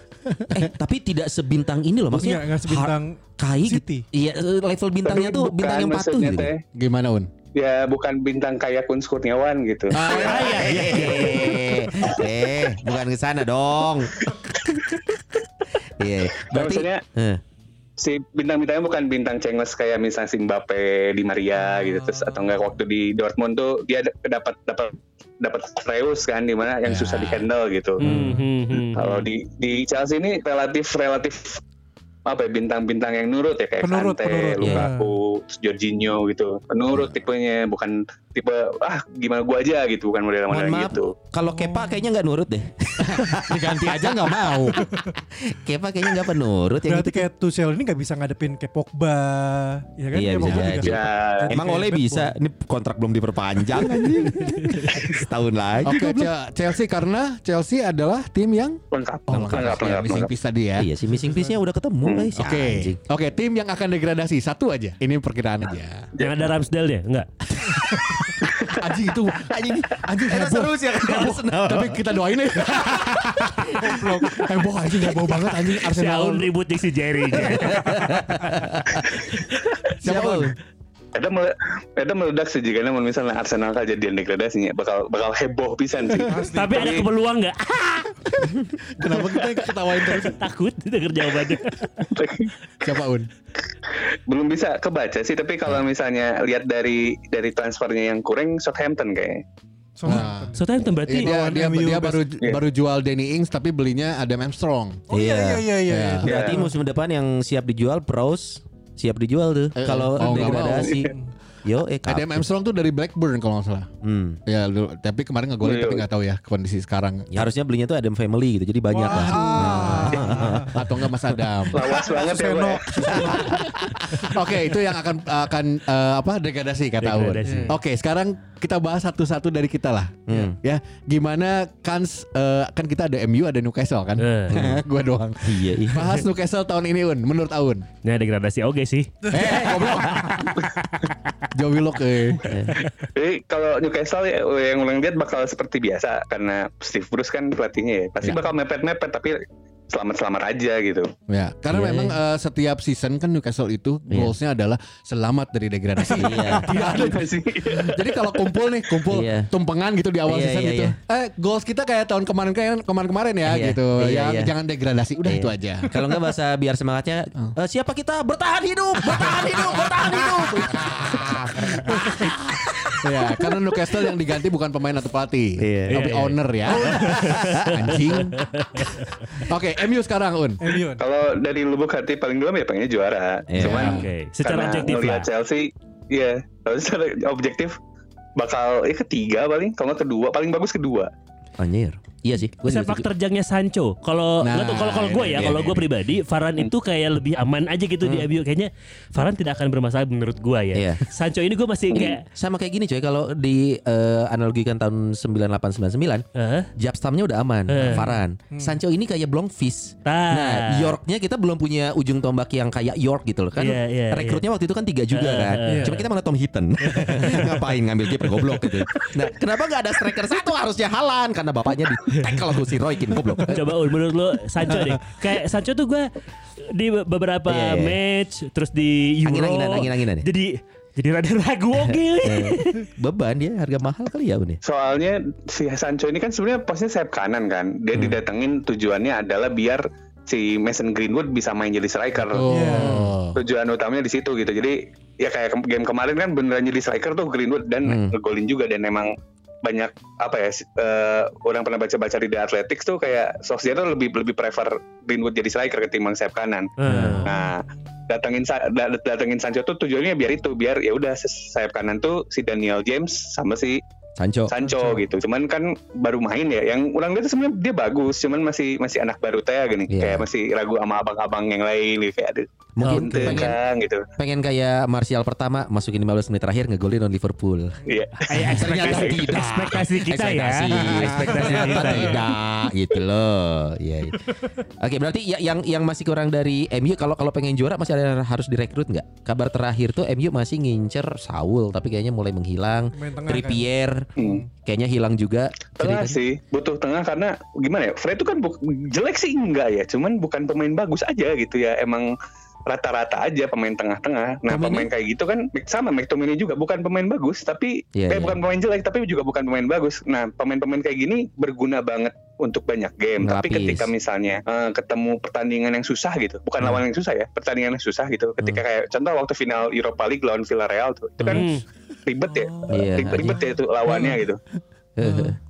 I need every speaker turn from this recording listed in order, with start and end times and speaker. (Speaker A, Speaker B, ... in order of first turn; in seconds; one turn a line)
Speaker A: 0.5-6.5
Speaker B: 2.1-4.0
Speaker C: 5.0-6.6
Speaker D: 6.8-7.3
Speaker C: 7.5-11.2
Speaker D: 9.9-10.6
Speaker A: 10.0-15.0
Speaker E: 10.1-11.7
Speaker C: 12.0-12.3
Speaker C: 14.3-14.9
Speaker A: 15.8-17.4
Speaker C: 16.4-17.0
Speaker C: 18.0-28.0
Speaker D: 26.9-27.5
Speaker E: 28.0-29.2
Speaker B: 28.1-28.5
Speaker A: 28.1-28.4
Speaker C: 28.9-31.6
Speaker C: 32.2-41.1
Speaker B: 33.8-35.1
Speaker A: 34.6-34.9
Speaker A: 40.5-44.6
Speaker B: 41.4-42.1
Speaker D: 43.0-44.8
Speaker A: 45.4-47.3
Speaker B: 46.8-52.3
Speaker A: 50.1-56.3
Speaker C: 50.8-51.6
Speaker D: 53.8-54.9
Speaker B: 54.1-54.3
Speaker D: 55.8-60.9
Speaker C: 58.9-60.3
Speaker A: 59.4-59.8
Speaker A: 60.8-63.0
Speaker B: 61.2-61.6
Speaker D: 62.4-66.1
Speaker C: 66.2-66.5
Speaker E: 66.2-67.3
Speaker D: 67.7-76.5
Speaker A: 68.4-68.7
Speaker A: 69.3-72.0
Speaker A: 72.8-73.7
Speaker B: 73.8-74.5
Speaker E: 75.8-78.1
Speaker A: 77.3-79.2
Speaker D: 80.0-80.5
Speaker A: 80.0-80.5
Speaker C: 81.1-87.1
Speaker B: 86.2-87.0
Speaker E: 86.5-88.3
Speaker D: 89.0-90.4
Speaker C: 89.0-89.4
Speaker E: 90.0-91.9
Speaker C: 92.0-92.5
Speaker D: 92.8-93.3
Speaker C: 93.9-99.4
Speaker B: 100.0-102.3
Speaker D: 100.1-100.5
Speaker E: 100.1-101.4
Speaker D: 101.1-105.0
Speaker A: 105.1-105.7
Speaker B: 105.1-106.7
Speaker D: 105.9-106.2
Speaker C: 106.2-106.6
Speaker A: 106.2-111.1
Speaker D: 109.8-111.0
Speaker C: 110.6-111.1
Speaker A: 111.6-112.5
Speaker D: 112.1-113.9
Speaker A: 114.0-114.4
Speaker D: 114.5-117.5
Speaker C: 115.6-116.0
Speaker A: 117.3-120.9
Speaker B: 118.9-120.9
Speaker D: 119.0-122.1
Speaker C: 121.7-123.4
Speaker B: 121.7-124.4
Speaker D: 123.0-137.9
Speaker A: 123.1-123.5
Speaker E: 127.0-127.8
Speaker B: 127.5-127.7
Speaker A: 130.3-130.6
Speaker E: 134.2-134.6
Speaker A: 134.5-134.8
Speaker A: 135.4-136.2
Speaker E: 138.0-139.1
Speaker D: 139.3-140.6
Speaker A: 139.4-140.5
Speaker D: 141.5-142.4
Speaker A: 142.5-142.8
Speaker C: 142.9-151.1
Speaker D: 151.3-165.9
Speaker A: 151.7-152.2
Speaker A: 154.1-154.3
Speaker A: 156.2-156.9
Speaker B: 156.3-156.9
Speaker C: 156.6-158.7
Speaker A: 159.1-159.5
Speaker A: 160.3-161.0
Speaker A: 163.5-164.5
Speaker A: 165.2-173.5
Speaker D: 169.0-172.4
Speaker D: 173.0-178.4
Speaker A: 175.6-176.1
Speaker E: 175.9-176.3
Speaker A: 176.7-178.1
Speaker E: 176.9-179.3
Speaker D: 179.4-180.6
Speaker B: 180.6-181.0
Speaker C: 181.0-187.8
Speaker A: 183.5-183.9
Speaker D: 183.6-184.1
Speaker E: 183.7-185.3
Speaker C: 188.4-191.1
Speaker A: 191.6-193.1
Speaker E: 192.6-202.2
Speaker D: 194.4-195.7
Speaker A: 195.3-195.8
Speaker A: 198.0-198.3
Speaker A: 200.7-201.0
Speaker C: 201.9-202.2
Speaker A: 202.3-206.2
Speaker E: 206.3-206.7
Speaker A: 206.8-223.6
Speaker E: 207.7-208.1
Speaker B: 208.5-208.8
Speaker E: 210.1-211.0
Speaker E: 213.6-214.4
Speaker E: 215.1-216.1
Speaker B: 215.7-215.9
Speaker E: 216.9-217.5
Speaker E: 223.4-232.9
Speaker A: 227.5-228.0
Speaker A: 229.2-230.3
Speaker A: 231.8-234.6
Speaker C: 234.6-249.1
Speaker D: 242.3-243.4
Speaker B: 242.5-243.0
Speaker A: 247.8-248.2
Speaker C: 249.6-256.7
Speaker E: 256.8-257.3
Speaker A: 256.9-257.2
Speaker D: 256.9-257.2
Speaker C: 257.2-263.8
Speaker B: 257.3-257.6
Speaker A: 264.2-264.5
Speaker C: 264.5-274.1
Speaker B: 264.6-265.0
Speaker A: 269.9-270.3
Speaker A: 272.8-273.6
Speaker E: 272.8-273.4
Speaker A: 274.2-296.2
Speaker C: 277.9-279.3
Speaker E: 278.3-282.2
Speaker D: 280.7-281.8
Speaker B: 281.4-282.2
Speaker B: 292.9-293.7
Speaker C: 294.2-294.4
Speaker B: 294.2-294.5
Speaker C: 295.8-302.1
Speaker C: 302.7-321.5
Speaker A: 304.5-304.9
Speaker A: 307.9-308.4
Speaker A: 313.2-313.9
Speaker E: 321.3-321.6
Speaker C: 322.1-324.4
Speaker A: 322.7-323.5
Speaker A: 325.0-325.4
Speaker D: 325.0-325.3